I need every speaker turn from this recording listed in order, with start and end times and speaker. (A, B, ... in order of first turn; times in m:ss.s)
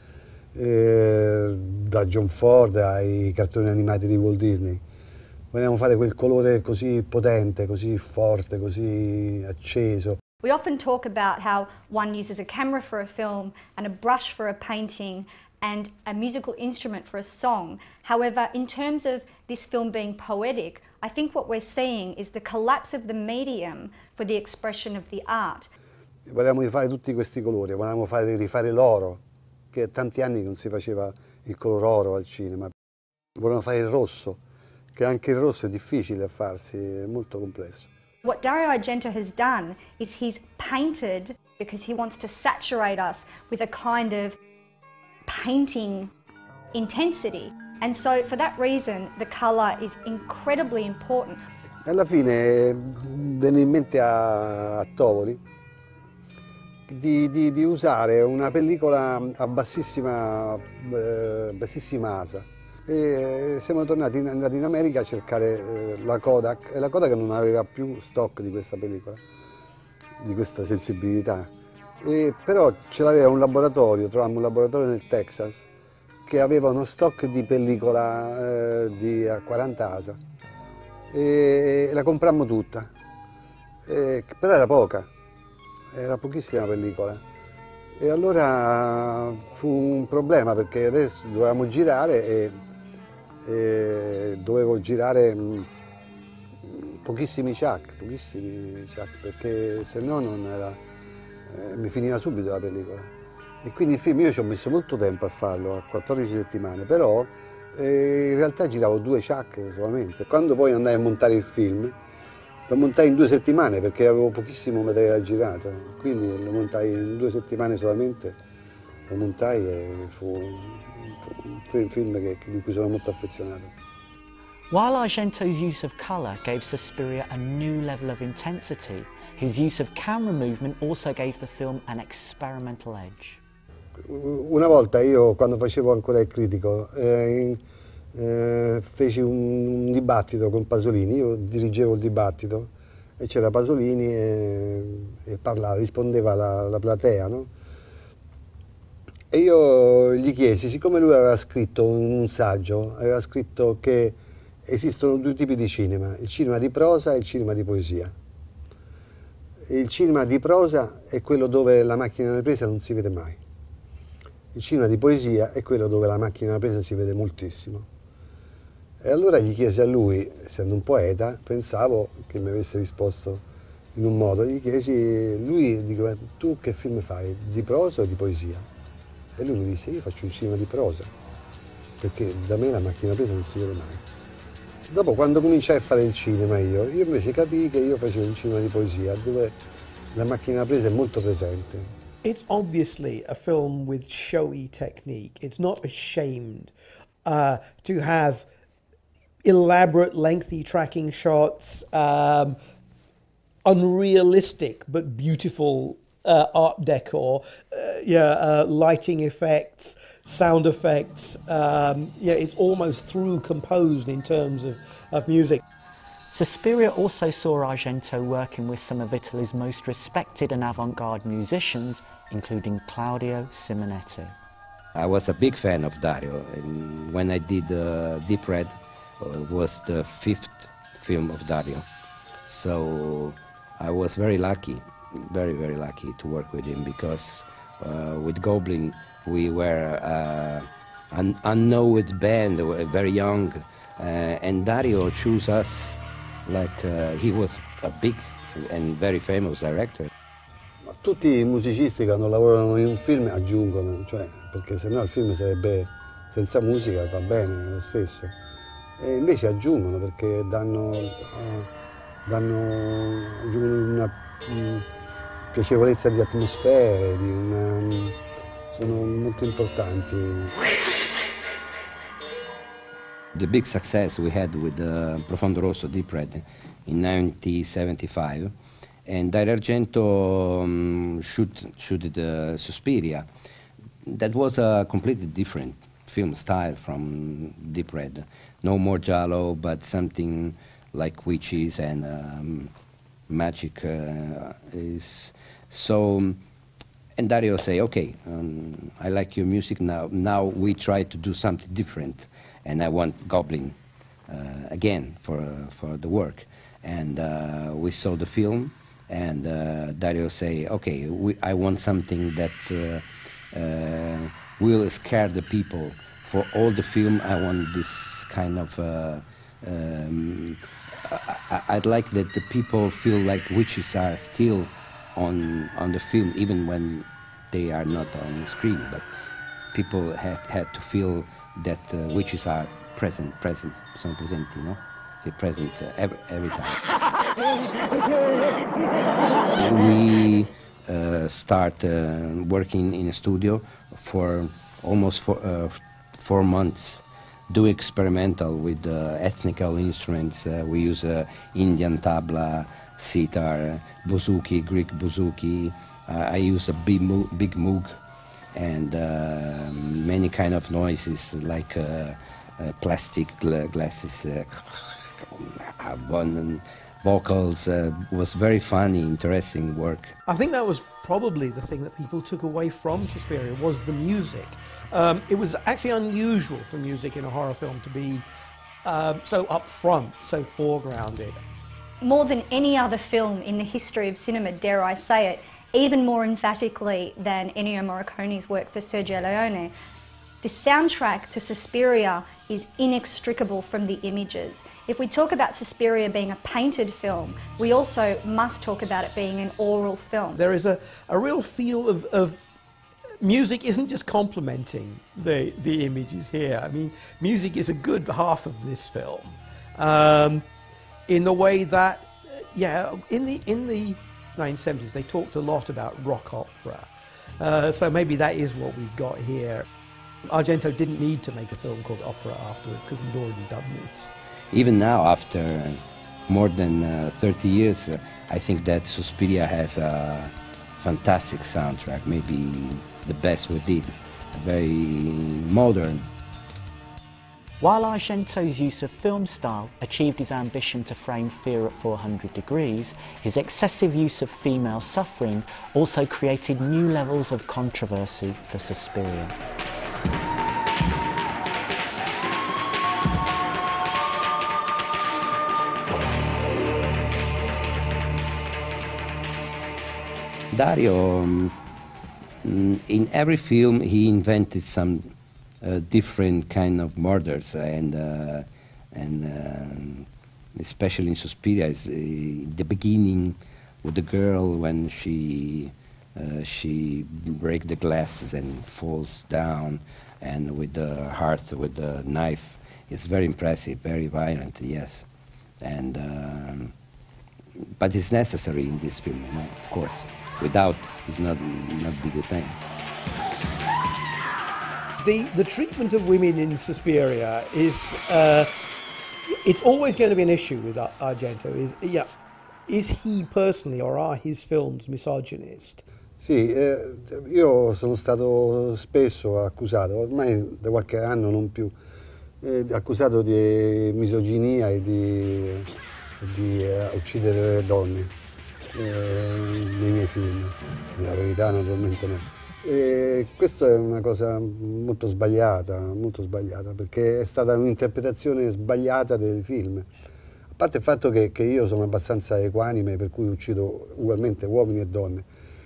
0:00.5-0:04.8 A
0:05.5-0:10.2 A
0:10.4-0:25.7 B
0:26.3-0:32.7 A
0:33.4-0:34.4 A
0:35.0-0:37.9 A
0:38.2-0:44.4 B
0:45.3-0:46.1 B
0:46.7-0:51.4 B
0:51.8-0:55.4 A
0:56.9-1:09.2 A
1:10.2-1:11.5 A
1:12.0-1:15.7 A
1:16.3-1:20.2 A
1:21.1-1:22.9 A
1:23.8-1:25.1 A
1:25.9-1:27.2 A
1:28.0-1:32.6 A
1:33.4-1:35.7 A
1:36.6-1:40.8 A
1:41.5-1:43.1 A
1:43.6-1:52.0 A
1:52.7-1:58.4 A
1:59.1-2:03.7 A
2:04.7-2:13.4 C
2:14.0-2:17.6 A
2:18.1-2:27.5 A
2:29.3-2:38.1 A
2:39.7-2:43.4 A
2:44.5-2:47.9 A
2:49.0-2:58.7 A
2:59.4-3:01.1 A
3:02.0-3:04.0 A
3:04.9-3:09.6 A
3:10.1-3:12.0 A
3:12.2-3:16.7 D
3:17.2-3:18.5 D
3:19.4-3:22.6 D
3:23.6-3:35.6 D
3:36.3-3:44.3 C
3:45.0-3:51.9 E
3:52.5-4:10.1 E
4:10.8-4:18.4 A
4:19.0-4:21.7 A
4:22.3-4:24.9 A
4:25.5-4:28.2 A
4:28.7-4:30.6 A
4:33.4-4:38.5 E
4:39.1-4:43.3 E
4:44.1-4:52.7 E
4:53.3-4:56.4 E
4:57.2-5:03.8 E
5:04.3-5:29.0 E
5:29.7-5:36.9 E
5:39.5-5:58.0 E
5:58.5-6:10.1 E
6:10.3-6:18.2 D
6:18.8-6:21.4 D
6:22.0-6:29.7 B
6:30.4-6:40.4 B
6:40.4-6:42.4 D
6:43.2-6:50.4 D
6:51.1-6:56.9 D
6:57.4-6:59.7 D
7:00.3-7:04.1 D
7:04.5-7:16.1 E
7:17.6-7:29.4 C
7:40.5-7:41.6 E
7:42.4-7:45.1 E
7:45.6-8:05.0 E
8:05.6-8:06.7 E
8:07.8-8:12.6 E
8:15.0-8:18.5 D
8:19.3-8:22.1 D
8:22.7-8:25.8 D
8:26.2-8:31.7 A
8:32.4-8:38.1 A
8:38.7-8:49.9 A
8:50.6-8:55.3 A